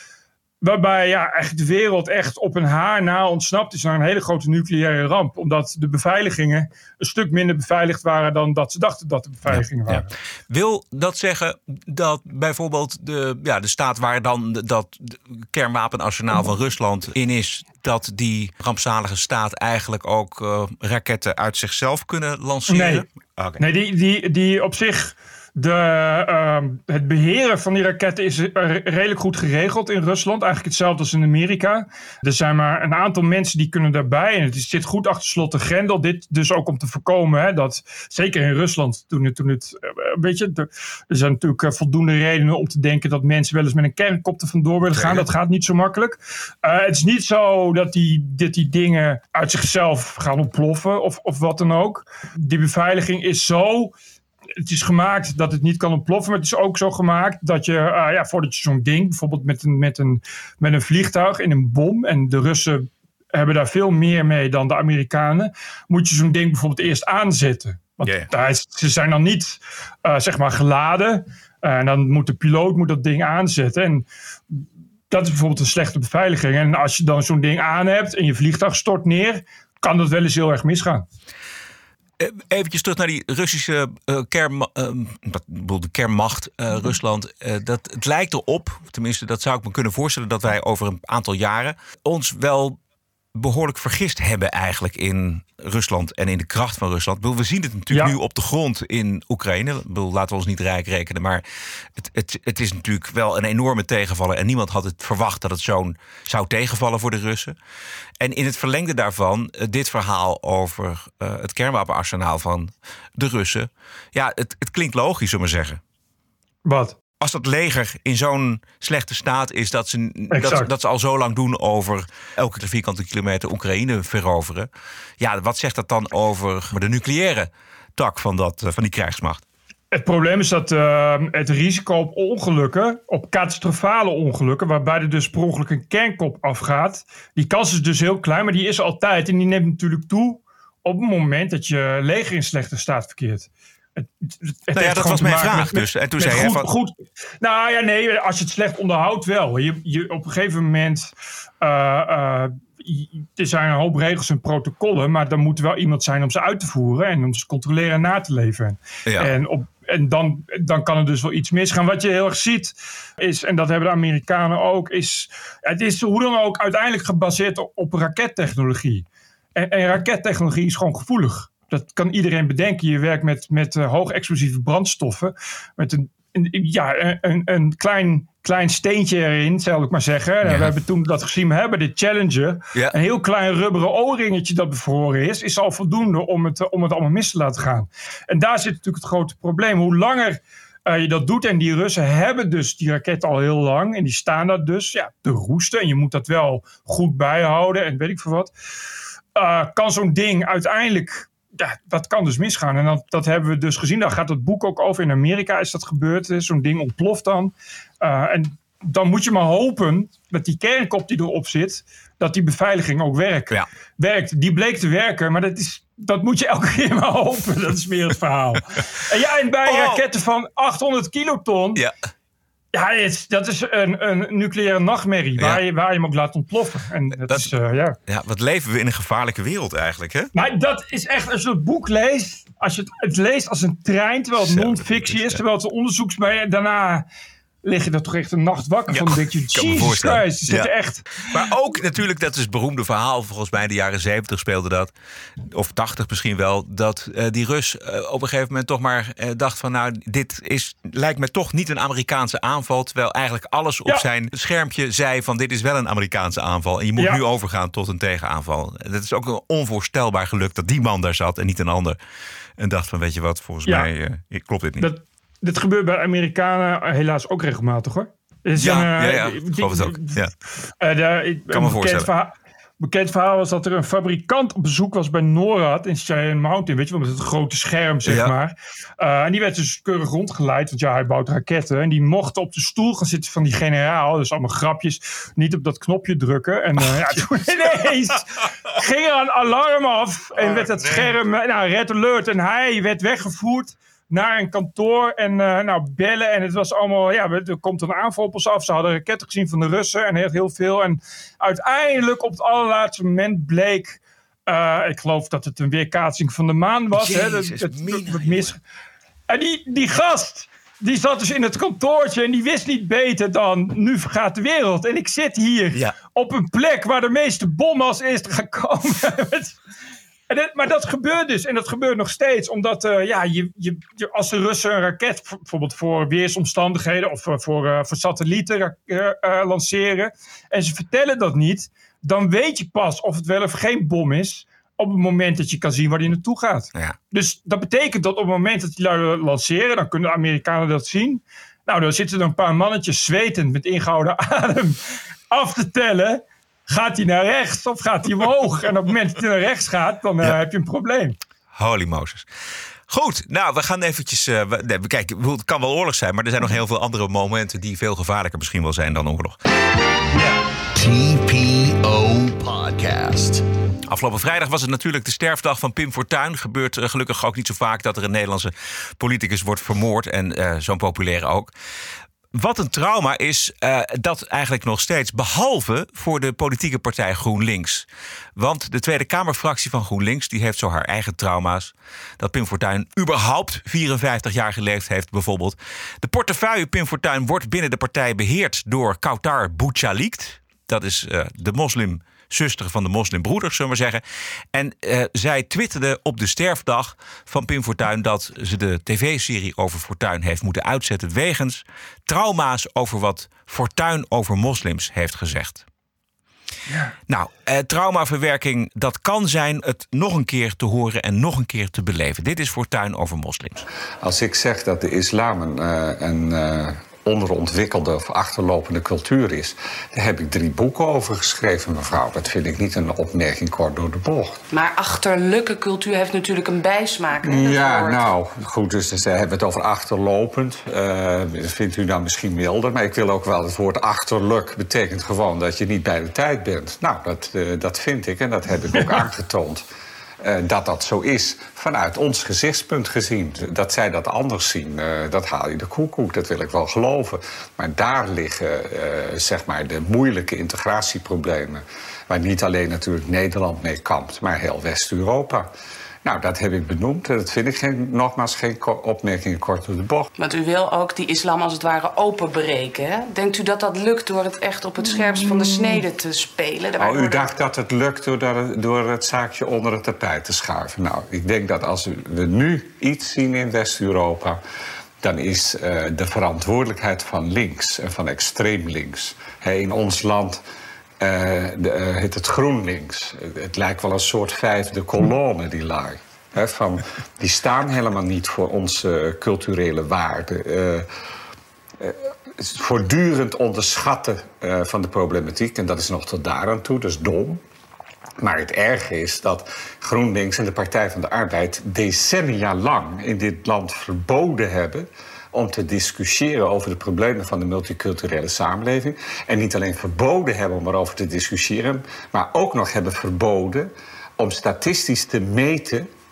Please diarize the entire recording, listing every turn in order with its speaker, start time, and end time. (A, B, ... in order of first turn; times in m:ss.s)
0:00.6-0:10.1 A
0:09.5-0:23.6 B
0:22.7-0:23.0 A
0:23.6-0:53.9 A
0:44.9-0:45.2 B
0:54.6-1:21.0 A
1:08.0-1:08.3 B
1:22.2-1:32.8 B
1:33.3-1:41.4 B
1:42.0-1:47.6 B
1:48.2-1:55.8 B
1:56.6-1:57.0 A
1:57.2-2:04.7 B
2:00.3-2:00.7 A
2:05.2-2:09.4 B
2:09.9-2:49.0 A
2:24.7-2:26.7 B
2:49.6-3:18.5 A
3:00.4-3:00.7 B
3:19.3-3:41.8 A
3:39.6-3:40.0 B
3:42.7-3:48.0 A
3:47.2-3:47.5 B
3:48.1-3:50.3 B
3:50.3-3:57.0 A
3:54.4-3:55.4 B
3:57.6-4:01.2 A
3:58.9-4:00.7 B
4:01.2-4:04.9 B
4:05.5-4:22.0 B
4:22.6-4:24.9 B
4:24.8-4:30.2 A
4:28.6-4:30.3 B
4:30.8-5:08.6 A
4:31.5-4:32.1 B
4:38.0-4:38.3 B
4:46.8-4:47.9 B
4:50.4-4:51.1 B
5:06.9-5:08.6 B
5:09.3-5:19.6 A
5:20.3-5:44.8 A
5:45.3-5:51.2 A
5:51.5-5:52.3 B
5:52.9-5:59.4 B
6:00.8-6:03.4 C
6:03.9-6:11.5 B
6:12.3-6:34.0 B
6:34.5-6:45.6 B
6:46.7-6:46.9 A
6:47.1-6:53.6 B
6:54.0-7:04.4 D
7:04.5-7:08.1 E
7:07.2-7:19.6 D
7:20.2-7:35.5 D
7:36.0-7:40.1 D
7:40.2-7:47.3 E
7:46.8-7:54.4 D
7:55.0-8:00.4 D
8:01.0-8:10.9 D
8:11.8-8:17.4 D
8:18.2-8:35.9 D